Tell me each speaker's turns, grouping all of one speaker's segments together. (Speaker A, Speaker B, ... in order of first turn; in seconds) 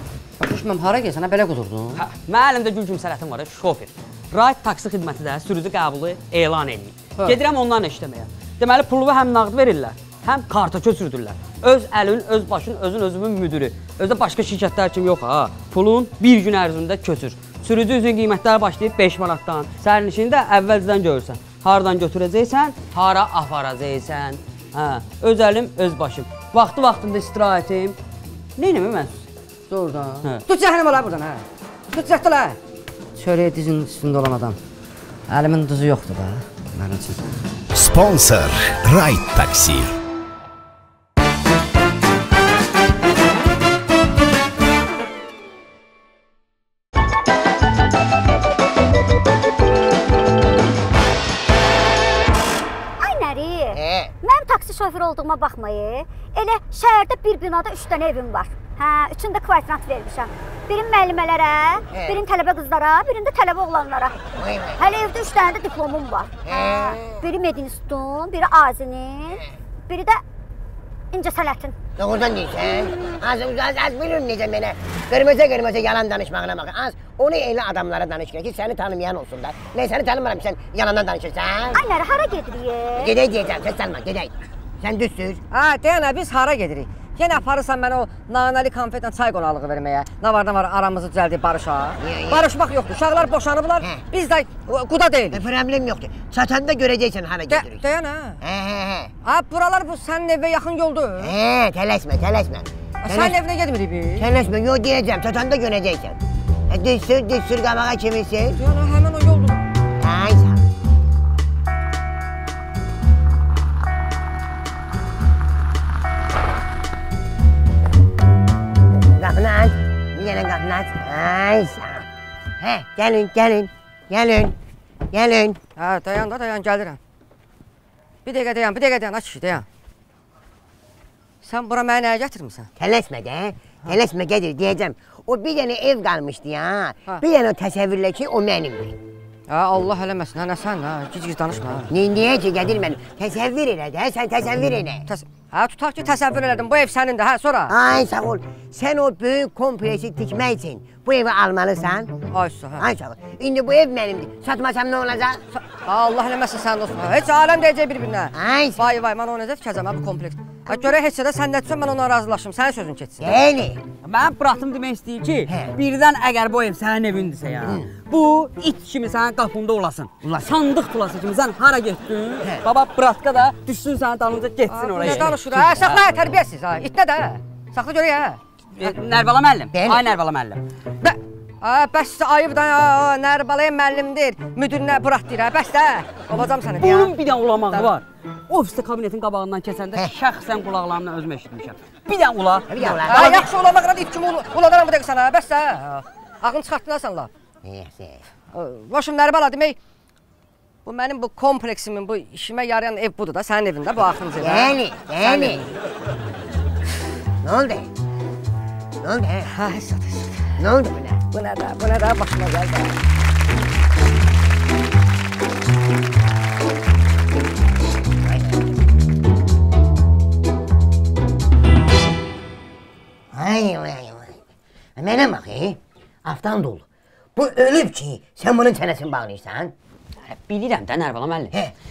Speaker A: 0.4-2.0, 29.7-32.6, 33.1-34.6, 35.3-37.2, 85.5-95.4, 97.5-98.4, 99.2-101.3, 103.0-104.3, 108.6-109.6, 125.8-127.0, 128.2-129.7, 131.4-132.7, 139.5-141.9, 145.1-147.7, 152.3-152.8, 155.8-163.4, 174.7-178.4, 181.0-187.1, 187.7-188.0, 192.9-197.3, 198.5-199.8, 200.8-205.7, 209.4-210.5, 211.3-212.9
Speaker B: 1.9-28.0, 28.6-29.2, 164.0-175.8, 178.7-180.6, 186.8-193.4, 230.2-231.5
Speaker C: 37.7-39.9
Speaker D: 53.0-64.1, 64.8-70.2, 71.1-71.7, 81.7-83.1
Speaker E: 53.7-54.1, 61.9-62.2, 64.4-64.8, 66.4-67.3, 72.0-81.8, 82.9-85.4, 92.0-92.5, 95.3-97.8, 98.4-99.1, 101.2-103.4, 104.2-106.2, 106.7-108.6, 110.0-110.6, 118.9-122.1, 122.6-124.6, 125.1-125.6, 132.8-139.0, 141.9-145.1, 147.7-152.2, 152.8-155.4, 158.3-158.8, 163.2-163.8, 165.5-165.7, 167.6-167.9, 170.2-170.5, 179.7-180.1, 192.7-193.5, 197.6-198.2, 204.4-205.7, 207.4-207.9, 209.0-209.5, 210.6-211.2, 218.2-218.8, 223.3-224.4, 225.0-229.7